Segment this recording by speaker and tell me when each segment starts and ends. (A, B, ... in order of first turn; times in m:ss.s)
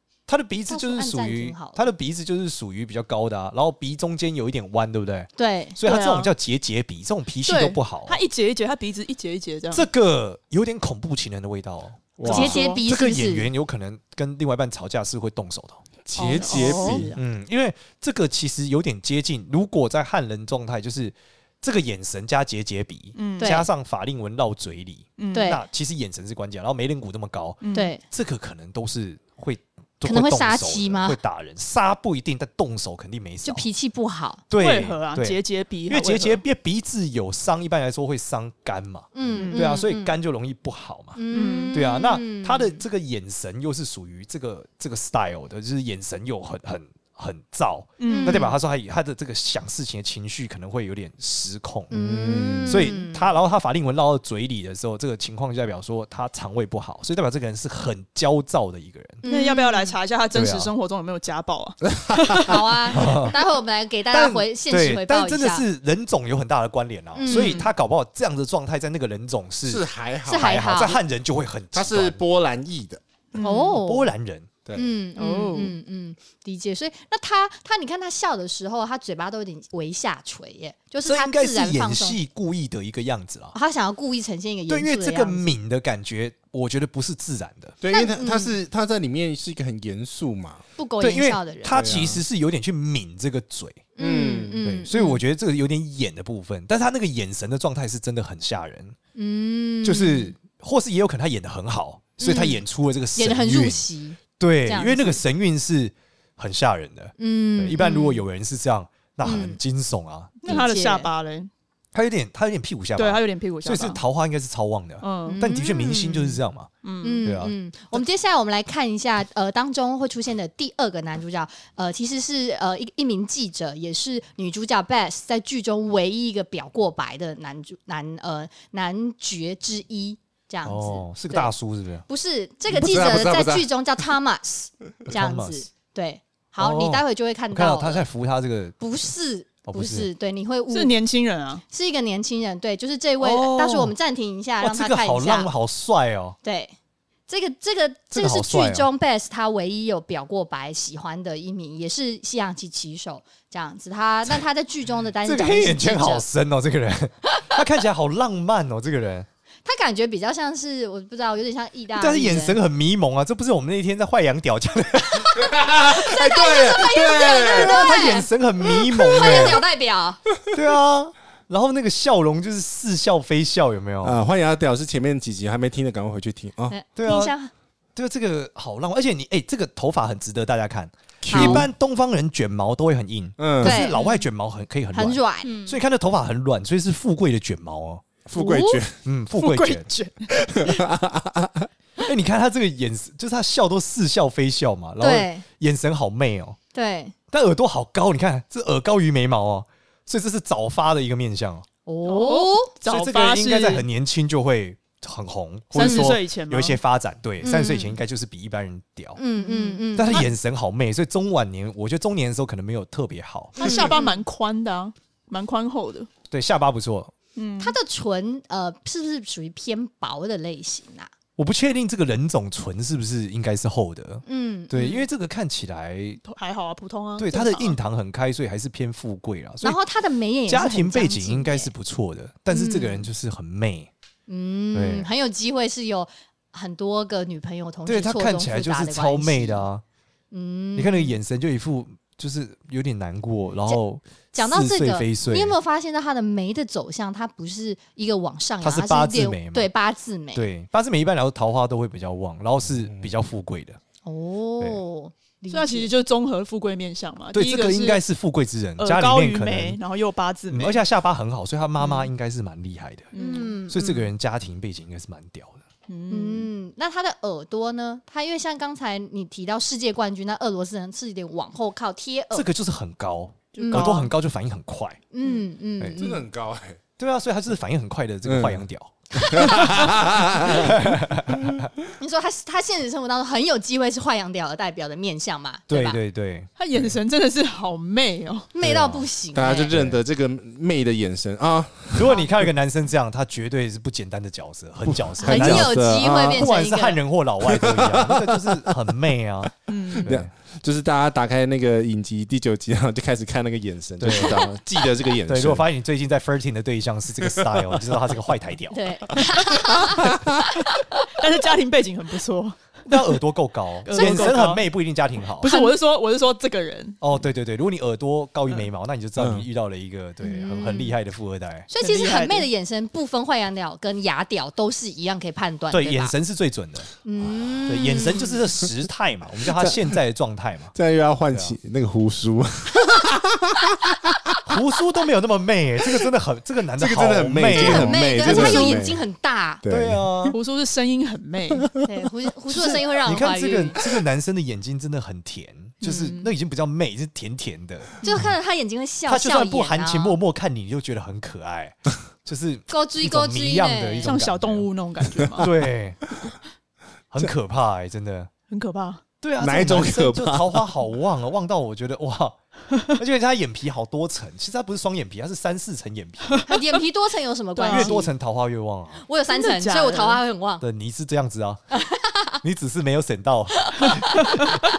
0:00.3-0:08.2 A
0:00.7-0:01.8 B
0:05.4-0:05.8 B
0:05.8-0:06.3 C
0:07.4-0:09.9 C
0:09.7-0:15.8 A
0:12.2-0:12.6 D
0:12.3-0:13.5 B
0:12.3-0:12.8 C
0:16.1-0:17.1 D
0:16.2-0:17.2 C
0:16.2-0:16.9 B
0:16.6-0:33.7 A
0:23.2-0:23.6 C
0:23.4-0:23.7 B
0:25.2-0:25.5 C
0:25.3-0:25.6 B
0:27.6-0:27.9 C
0:27.7-0:28.0 B
0:30.0-0:31.2 B
0:33.4-0:34.4 B
0:34.5-0:41.2 A
0:34.6-0:36.4 C
0:39.1-0:40.2 B
0:39.3-0:39.8 C
0:41.2-0:42.8 B
0:41.3-0:41.8 C
0:41.7-0:51.9 A
0:48.0-0:48.5 C
0:48.0-0:48.6 B
0:51.9-0:53.3 B
0:51.9-0:52.9 D
0:52.7-0:59.2 A
0:59.2-1:00.0 B
0:59.2-1:02.8 C
1:00.3-1:00.7 A
1:02.0-1:02.5 D
1:02.5-1:05.6 B
1:02.9-1:03.4 A
1:04.1-1:12.2 A
1:07.2-1:07.6 B
1:07.3-1:07.7 C
1:09.6-1:10.8 D
1:10.3-1:11.0 B
1:11.7-1:13.0 D
1:13.3-1:13.8 C
1:13.4-1:14.1 B
1:13.8-1:14.5 A
1:14.8-1:22.2 B
1:15.2-1:15.8 C
1:21.0-1:23.6 A
1:23.5-1:25.5 B
1:24.7-1:27.8 A
1:27.8-1:30.6 D
1:27.9-1:28.6 B
1:30.8-1:31.8 B
1:31.0-1:33.9 A
1:31.7-1:32.2 D
1:34.0-1:35.2 B
1:34.0-1:34.6 D
1:34.6-1:39.0 A
1:39.2-1:40.3 B
1:39.8-1:50.6 A
1:42.2-1:42.6 B
1:43.2-1:45.2 B
1:47.2-1:48.2 B
1:49.2-1:49.6 B
1:50.4-1:51.5 C
1:50.5-1:51.1 B
1:51.9-1:56.7 A
1:53.0-1:54.0 C
1:55.0-1:55.4 C
1:55.2-1:56.3 B
1:56.8-1:57.2 C
1:57.0-2:11.5 B
1:57.2-1:58.0 A
2:10.6-2:12.0 A
2:12.1-2:18.0 B
2:12.7-2:13.7 D
2:15.1-2:15.6 A
2:16.6-2:18.8 A
2:18.8-2:21.0 B
2:19.7-2:20.1 A
2:20.7-2:21.6 C
2:21.7-2:25.5 B
2:23.2-2:23.9 A
2:24.6-2:26.4 A
2:26.4-2:26.7 B
2:27.3-2:36.2 B
2:28.1-2:28.9 A
2:35.2-2:39.3 A
2:39.7-2:42.6 B
2:42.0-2:45.5 A
2:45.4-2:48.0 D
2:45.8-2:48.3 B
2:47.4-2:49.6 A
2:48.9-2:50.2 B
2:50.5-2:54.2 A
2:54.0-2:56.8 D
2:56.7-2:57.5 B
2:57.0-2:57.3 A
2:58.0-3:08.0 A
3:01.2-3:01.7 D
3:01.3-3:01.6 B
3:03.4-3:03.8 D
3:03.6-3:04.0 B
3:03.9-3:04.2 C
3:04.9-3:05.6 B
3:05.4-3:05.8 C
3:08.3-3:09.0 D
3:08.4-3:08.8 B
3:09.0-3:09.9 A
3:09.4-3:10.8 C
3:10.3-3:11.7 D
3:12.0-3:16.6 A
3:15.0-3:15.4 B
3:16.7-3:17.1 B
3:17.3-3:21.7 A
3:21.9-3:22.7 B
3:22.0-3:23.9 C
3:22.8-3:29.2 A
3:25.7-3:26.8 C
3:25.8-3:26.1 B
3:27.4-3:28.0 B
3:29.2-3:30.3 B
3:29.4-3:30.3 C
3:30.0-3:33.9 A
3:33.6-3:36.1 C
3:33.6-3:34.2 B
3:36.3-3:37.1 A
3:37.4-3:37.8 C
3:37.6-3:41.1 B
3:41.4-3:46.2 A
3:44.3-3:45.1 B
3:46.2-3:47.8 C
3:47.2-3:49.8 A
3:49.6-3:51.7 B
3:50.5-3:53.9 A
3:52.5-3:53.1 B
3:54.3-3:59.7 B
3:54.7-3:55.1 A
3:57.9-3:59.8 A
4:00.3-4:01.2 B
4:00.8-4:05.6 A
4:04.3-4:10.4 B
4:08.6-4:09.7 A
4:10.3-4:13.8 A
4:14.0-4:15.9 B
4:15.5-4:18.0 C
4:17.3-4:19.8 A
4:18.8-4:20.8 C
4:20.5-4:23.1 A
4:21.8-4:22.1 C
4:23.1-4:23.6 C
4:23.1-4:24.1 B
4:23.7-4:25.6 A
4:25.9-4:26.5 C
4:26.1-4:32.5 B
4:32.3-4:35.0 A
4:33.6-4:34.1 C
4:33.6-4:34.0 B
4:35.1-4:36.2 B
4:36.0-4:36.8 D
4:37.0-4:40.0 A
4:38.2-4:38.6 D
4:39.1-4:39.8 B
4:39.3-4:40.9 D
4:40.5-4:41.7 A
4:41.4-4:41.7 D
4:42.0-4:46.0 B
4:45.7-4:46.9 A
4:46.6-4:48.5 C
4:48.5-4:49.8 B
4:48.6-4:49.0 A
4:48.6-4:52.3 D
4:49.7-4:50.0 A
4:51.9-5:00.3 A
4:54.8-4:56.5 D
4:55.2-4:57.0 B
4:57.4-4:58.8 D
4:59.7-5:00.1 C
5:00.0-5:05.7 D
5:04.0-5:04.5 A
5:05.3-5:08.8 A
5:07.2-5:08.0 D
5:08.7-5:11.1 B
5:09.1-5:10.5 D
5:11.2-5:13.0 C
5:12.9-5:15.5 A
5:13.9-5:14.6 C
5:13.9-5:14.4 B
5:15.4-5:17.0 C
5:15.4-5:15.8 B
5:17.0-5:21.7 A
5:19.2-5:19.5 D
5:20.2-5:21.0 B
5:21.7-5:26.1 B
5:21.8-5:22.5 C
5:25.7-5:26.9 A
5:27.0-5:28.4 B
5:27.7-5:30.7 A
5:29.5-5:30.0 D
5:30.7-5:34.4 D
5:31.3-5:31.6 A
5:34.4-5:38.6 A
5:36.8-5:39.0 D
5:37.5-5:39.6 B
5:38.3-5:38.7 C
5:39.6-5:40.1 D
5:39.7-5:40.4 A
5:40.3-5:41.7 C
5:41.8-5:43.8 B
5:42.5-5:48.2 A
5:45.8-5:46.3 C
5:48.0-5:50.2 B
5:49.1-5:54.7 A
5:52.7-5:54.1 B
5:54.0-5:55.5 C
5:55.4-5:56.0 A
5:57.1-5:58.3 A
5:58.5-5:59.0 C
5:59.2-6:02.4 A
5:59.4-6:00.7 D
6:02.9-6:06.5 A
6:06.5-6:08.1 B
6:07.6-6:08.0 C
6:07.7-6:09.0 A
6:09.0-6:10.6 B
6:09.3-6:10.2 C
6:10.6-6:11.6 A
6:11.7-6:12.4 B
6:12.4-6:14.4 A
6:13.6-6:14.2 B
6:14.0-6:14.5 C